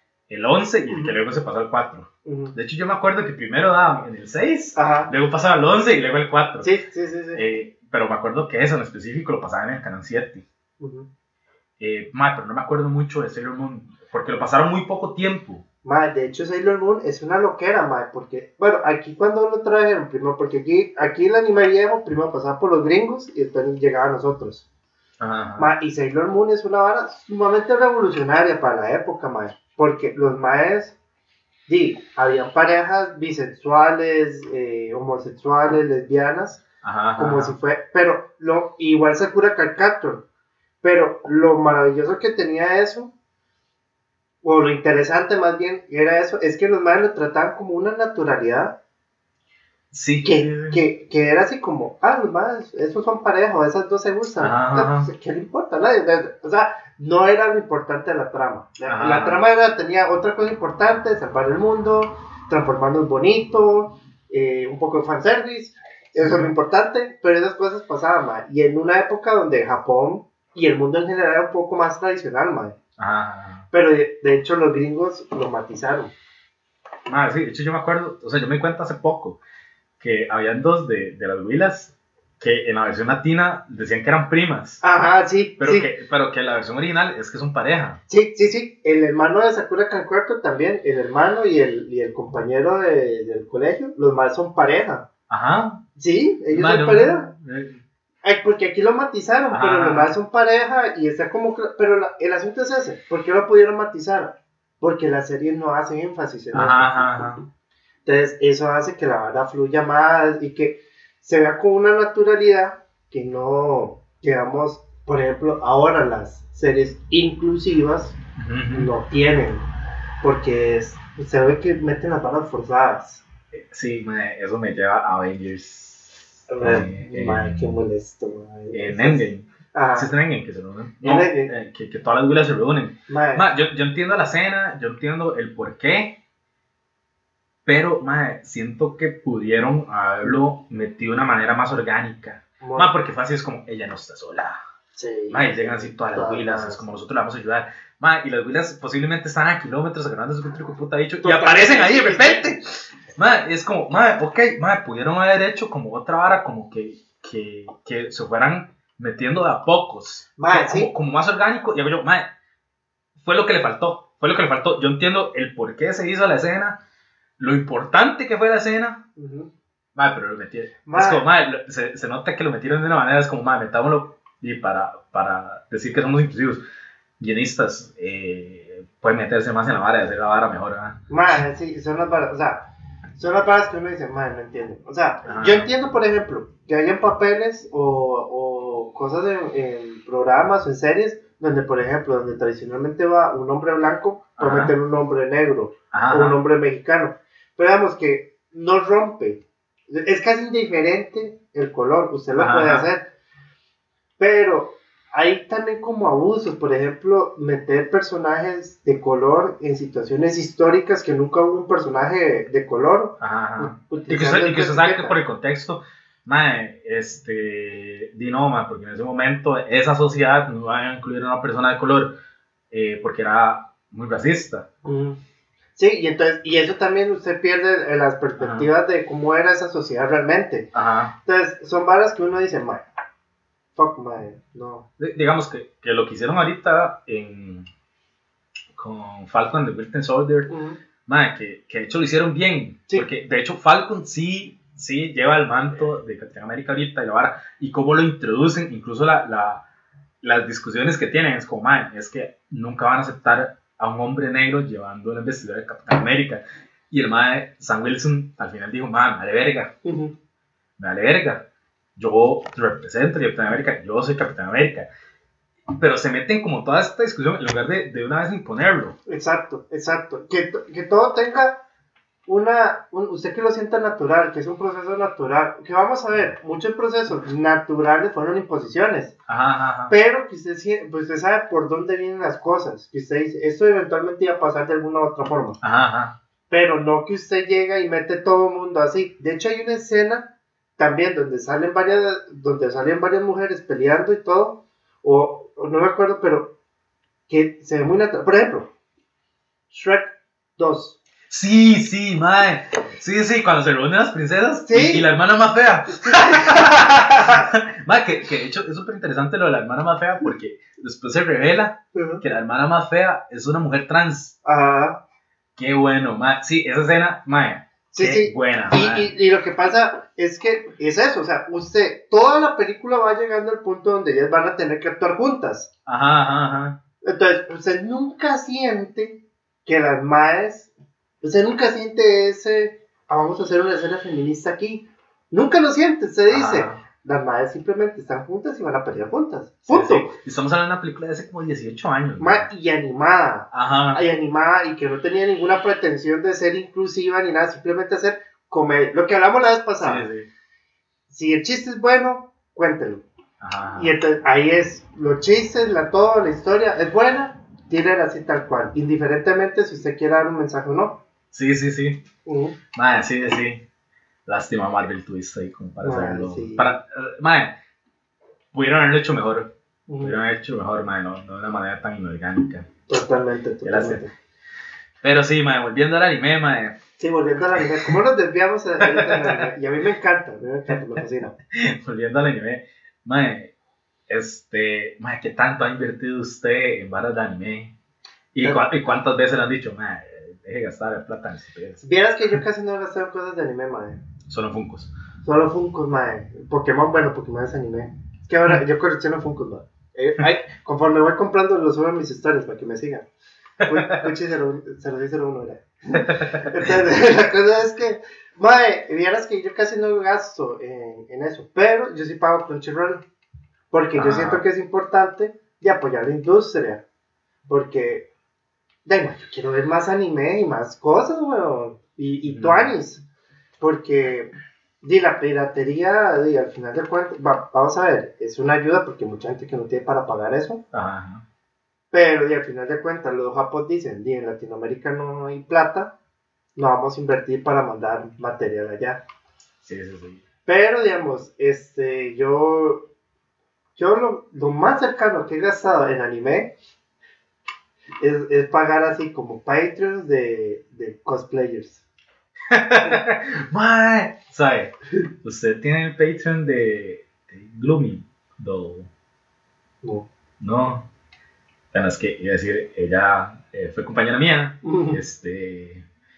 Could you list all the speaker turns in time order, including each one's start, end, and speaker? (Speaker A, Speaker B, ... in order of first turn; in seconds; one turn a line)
Speaker A: 0.3-6.7
Speaker B: 0.9-1.1
Speaker B: 2.2-2.5
Speaker B: 4.8-5.1
Speaker B: 6.6-7.4
Speaker A: 7.3-10.4
Speaker B: 10.8-11.1
Speaker A: 11.8-15.6
Speaker B: 15.8-24.6
Speaker A: 25.2-25.7
Speaker B: 25.6-31.0
Speaker B: 31.7-36.6
Speaker A: 36.8-37.5
Speaker B: 37.2-40.2
Speaker B: 40.8-43.1
Speaker B: 44.4-48.7
Speaker A: 49.9-50.8
Speaker B: 50.2-72.8
Speaker A: 54.4-55.1
Speaker A: 58.9-59.4
Speaker A: 66.2-66.5
Speaker A: 73.0-73.7
Speaker B: 73.7-76.1
Speaker A: 77.1-79.4
Speaker A: 80.0-84.8
Speaker B: 84.8-85.9
Speaker A: 85.6-88.0
Speaker B: 88.1-95.1
Speaker A: 95.3-95.8
Speaker B: 96.0-97.3
Speaker A: 96.5-97.8
Speaker B: 98.2-107.3
Speaker A: 99.5-100.2
Speaker A: 106.5-107.4
Speaker B: 108.0-118.2
Speaker A: 118.3-118.9
Speaker B: 118.7-119.6
Speaker B: 120.2-123.2
Speaker A: 123.5-127.8
Speaker B: 126.5-130.1
Speaker A: 128.7-136.2
Speaker B: 131.0-131.5
Speaker B: 133.1-133.5
Speaker A: 137.6-144.6
Speaker B: 142.6-142.9
Speaker B: 144.9-146.8
Speaker A: 145.3-162.3
Speaker B: 151.2-152.5
Speaker B: 160.4-160.9
Speaker A: 163.2-166.8
Speaker A: 167.4-169.0
Speaker B: 169.2-169.5
Speaker A: 169.9-176.6
Speaker B: 170.8-171.2
Speaker A: 177.2-181.0
Speaker B: 181.1-203.1
Speaker A: 185.2-185.7
Speaker A: 194.4-194.7
Speaker A: 195.9-196.4
Speaker A: 202.3-202.9
Speaker B: 204.2-215.2
Speaker A: 213.2-222.1
Speaker A: 222.7-224.7
Speaker B: 224.8-225.2
Speaker B: 225.8-230.7
Speaker A: 228.4-228.7
Speaker A: 230.7-231.2
Speaker B: 231.2-232.8
Speaker B: 233.7-234.9
Speaker A: 235.0-237.7
Speaker A: 238.7-240.5
Speaker B: 240.5-240.8
Speaker A: 241.1-249.6
Speaker A: 250.2-259.7
Speaker B: 259.8-260.1
Speaker A: 260.8-261.4
Speaker A: 261.9-264.9
Speaker A: 265.7-269.0
Speaker B: 269.1-271.6
Speaker B: 272.3-279.1
Speaker A: 279.3-279.9
Speaker B: 279.9-285.6
Speaker A: 285.6-286.1
Speaker B: 286.5-296.5
Speaker B: 297.3-298.7
Speaker B: 299.7-301.0
Speaker A: 301.3-314.4
Speaker B: 304.6-305.1
Speaker B: 305.9-307.5
Speaker B: 311.9-312.2
Speaker B: 314.4-315.0
Speaker A: 315.6-319.1
Speaker B: 317.9-325.7
Speaker A: 325.9-326.8
Speaker B: 327.0-340.1
Speaker A: 336.3-336.8
Speaker A: 339.7-342.5
Speaker B: 342.2-350.1
Speaker A: 343.5-344.0
Speaker A: 349.8-350.3
Speaker B: 351.1-353.1
Speaker A: 353.4-353.9
Speaker B: 353.8-361.0
Speaker A: 361.3-362.0
Speaker B: 362.2-362.6
Speaker A: 362.7-363.6
Speaker A: 364.2-367.5
Speaker B: 365.8-366.8
Speaker A: 368.5-369.5
Speaker B: 369.9-370.2
Speaker A: 370.0-372.7
Speaker B: 372.9-374.1
Speaker A: 373.6-374.0
Speaker A: 375.0-376.8
Speaker B: 377.0-381.4
Speaker A: 377.6-377.9
Speaker A: 378.8-379.5
Speaker A: 381.5-383.5
Speaker A: 384.1-387.7
Speaker A: 388.3-391.9
Speaker B: 388.4-388.7
Speaker B: 391.8-394.0
Speaker A: 394.3-394.9
Speaker B: 395.2-403.1
Speaker B: 403.6-413.0
Speaker A: 403.6-404.0
Speaker A: 406.1-406.7
Speaker B: 413.7-416.8
Speaker A: 413.9-414.4
Speaker B: 417.5-418.1
Speaker B: 418.8-423.0
Speaker A: 422.3-422.7
Speaker B: 423.6-430.6
Speaker A: 430.7-431.2
Speaker B: 431.9-435.9
Speaker B: 436.6-439.0
Speaker A: 439.6-440.2
Speaker B: 440.4-442.9
Speaker B: 443.8-446.5
Speaker B: 448.0-451.8
Speaker A: 452.5-458.9
Speaker B: 459.8-460.1
Speaker A: 460.4-460.9
Speaker A: 461.7-465.9
Speaker B: 464.6-465.0